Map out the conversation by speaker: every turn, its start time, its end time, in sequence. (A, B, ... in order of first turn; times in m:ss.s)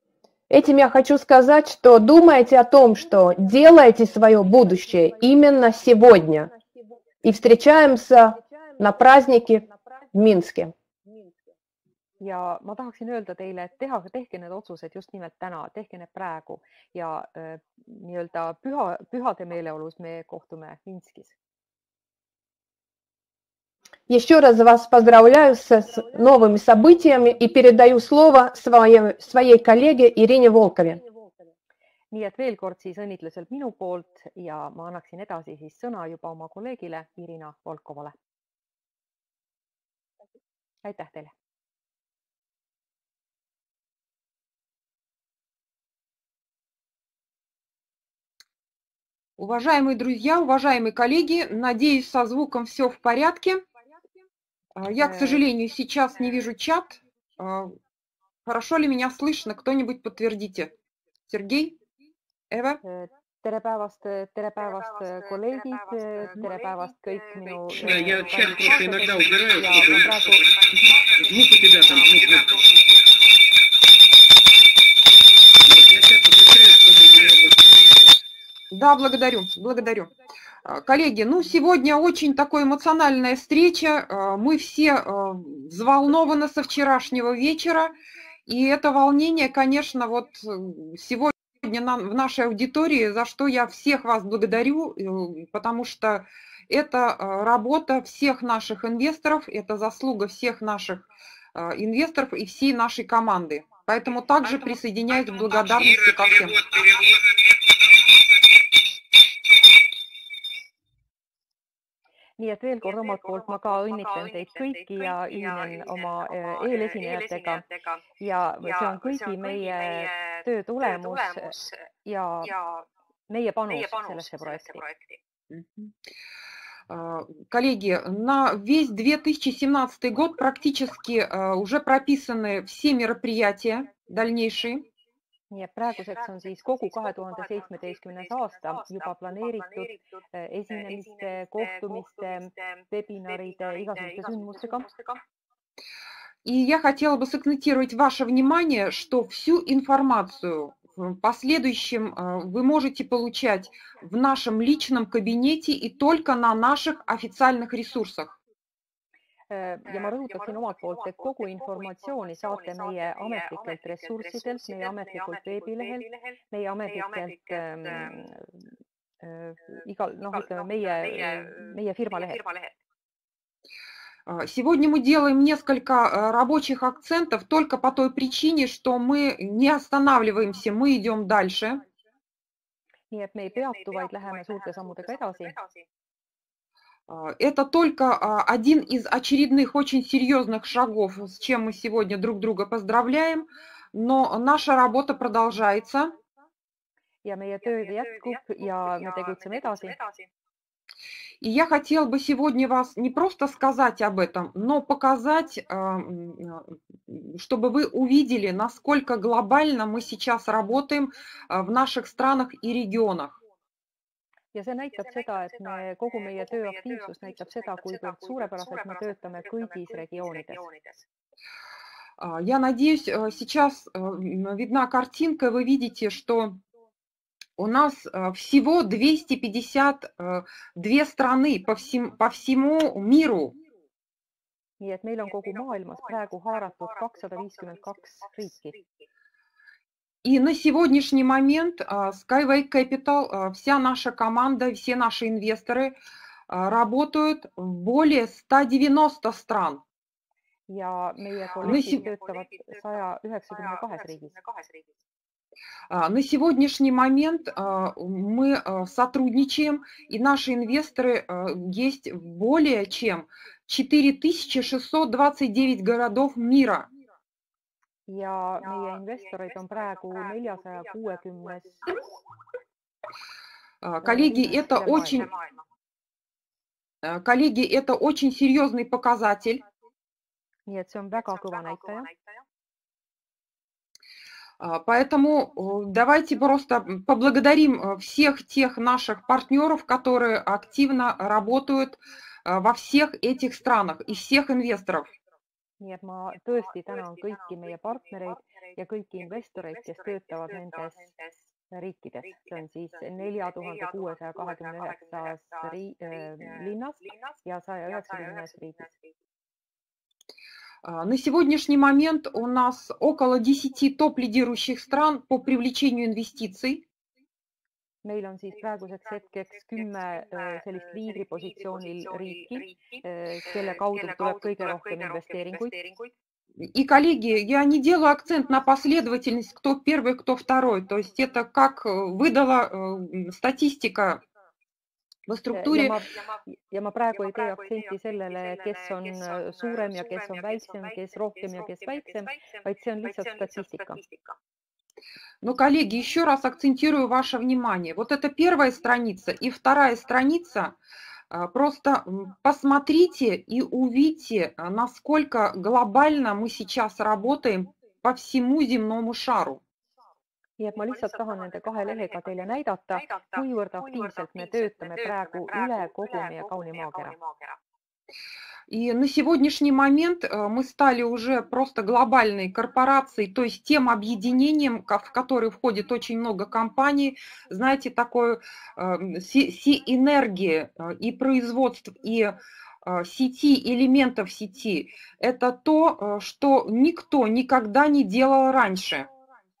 0:00.5-0:06.5 A
0:07.2-0:10.7 A
0:12.2-0:21.4 B
0:24.1-0:31.0 A
0:32.1-0:38.1 B
0:40.8-0:41.3 B
0:49.4-0:53.6 C
0:54.8-0:57.8 C
0:55.0-0:55.4 B
0:58.4-1:00.7 C
1:01.3-1:01.8 C
1:02.5-1:02.8 C
1:02.8-1:10.4 B
1:07.8-1:10.2 D
1:10.9-1:12.9 D
1:15.6-1:17.9 D
1:18.7-1:20.1 C
1:20.6-1:28.0 C
1:28.5-1:46.6 C
1:46.7-1:47.0 D
1:52.4-1:57.6 B
1:58.2-2:04.8 B
2:05.5-2:05.9 C
2:06.9-2:14.8 C
2:15.5-2:25.0 B
2:26.4-2:38.4 C
2:39.5-2:48.6 B
2:49.2-2:52.5 B
2:54.3-3:01.8 C
3:03.1-3:05.6 B
3:07.1-3:16.2 C
3:17.2-3:20.0 B
3:21.4-3:33.4 C
3:34.5-3:40.7 B
3:42.2-3:46.6 C
3:47.6-3:53.6 C
3:54.8-3:58.8 B
4:00.2-4:06.0 C
4:06.5-4:09.8 C
4:10.7-4:14.4 B
4:11.6-4:12.0 C
4:15.9-4:26.9 C
4:28.1-4:31.9 B
4:33.8-4:35.3 C
4:34.0-4:35.3 B
4:37.0-4:39.6 C
4:40.7-4:42.1 B
4:44.6-4:55.1 C
4:55.8-5:01.1 B
5:01.7-5:08.9 B
5:10.8-5:16.8 C
5:18.0-5:25.8 B
5:26.6-5:34.2 C
5:35.3-5:36.0 C
5:35.5-5:44.0 B
5:45.4-5:50.8 C
5:51.3-5:59.6 C
6:00.6-6:07.2 B
6:08.7-6:29.1 C